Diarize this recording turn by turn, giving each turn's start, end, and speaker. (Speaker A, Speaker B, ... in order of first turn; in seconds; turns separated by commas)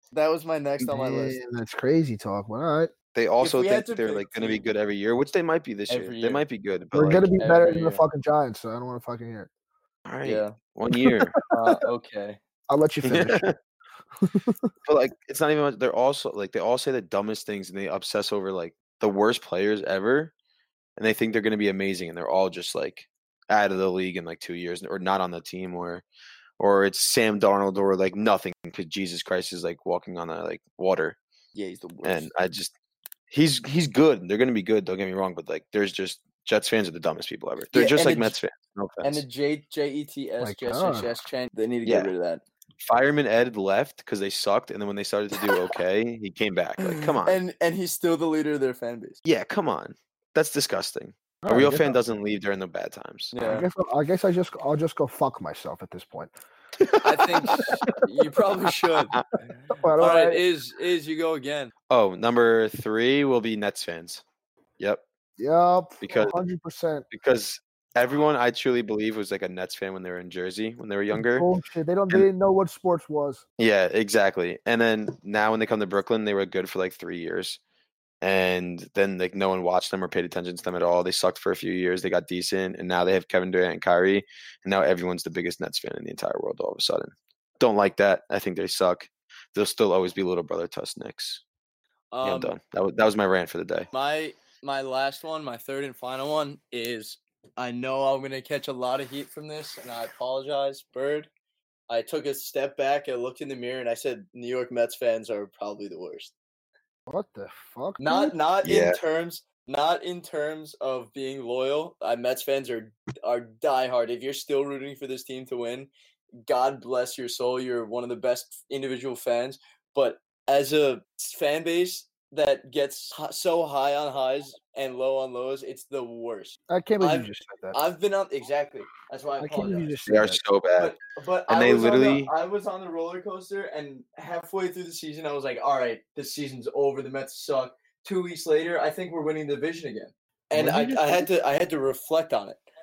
Speaker A: 0.1-1.4, Speaker B: 0.8-2.9, Speaker C: 3.1-7.3, Speaker A: 3.4-4.7, Speaker A: 5.9-6.4, Speaker B: 6.9-9.5, Speaker A: 7.4-8.0, Speaker C: 10.1-11.3, Speaker A: 10.2-10.6, Speaker B: 11.0-11.4, Speaker A: 11.5-12.4, Speaker B: 12.7-13.4, Speaker C: 13.0-13.5, Speaker B: 14.2-14.7, Speaker C: 14.8-20.3, Speaker C: 21.0-26.0, Speaker C: 26.6-31.2, Speaker A: 31.5-32.3, Speaker C: 32.0-32.7, Speaker C: 33.3-39.2, Speaker A: 37.7-38.4, Speaker A: 39.0-42.4, Speaker B: 40.4-41.1, Speaker C: 41.8-42.1, Speaker C: 42.8-47.4, Speaker A: 46.8-49.2, Speaker C: 49.2-53.3, Speaker B: 51.4-52.0, Speaker A: 53.3-53.7, Speaker B: 53.4-56.3, Speaker C: 56.8-57.8, Speaker A: 57.0-59.2, Speaker B: 57.6-58.0, Speaker B: 59.7-60.4, Speaker A: 59.7-61.7, Speaker C: 61.9-64.2, Speaker B: 65.4-67.0, Speaker C: 66.0-66.4, Speaker C: 67.1-71.5, Speaker B: 71.1-73.4, Speaker C: 73.6-77.6, Speaker C: 78.2-91.4, Speaker A: 92.1-92.5, Speaker C: 92.2-93.9, Speaker A: 93.9-101.3, Speaker A: 101.9-106.3, Speaker B: 107.1-108.3, Speaker A: 108.0-115.9, Speaker C: 108.6-109.0, Speaker A: 116.5-129.9, Speaker B: 126.7-127.8, Speaker B: 129.4-130.4, Speaker C: 130.1-130.9, Speaker A: 130.8-142.6, Speaker C: 131.5-132.3, Speaker B: 140.5-141.3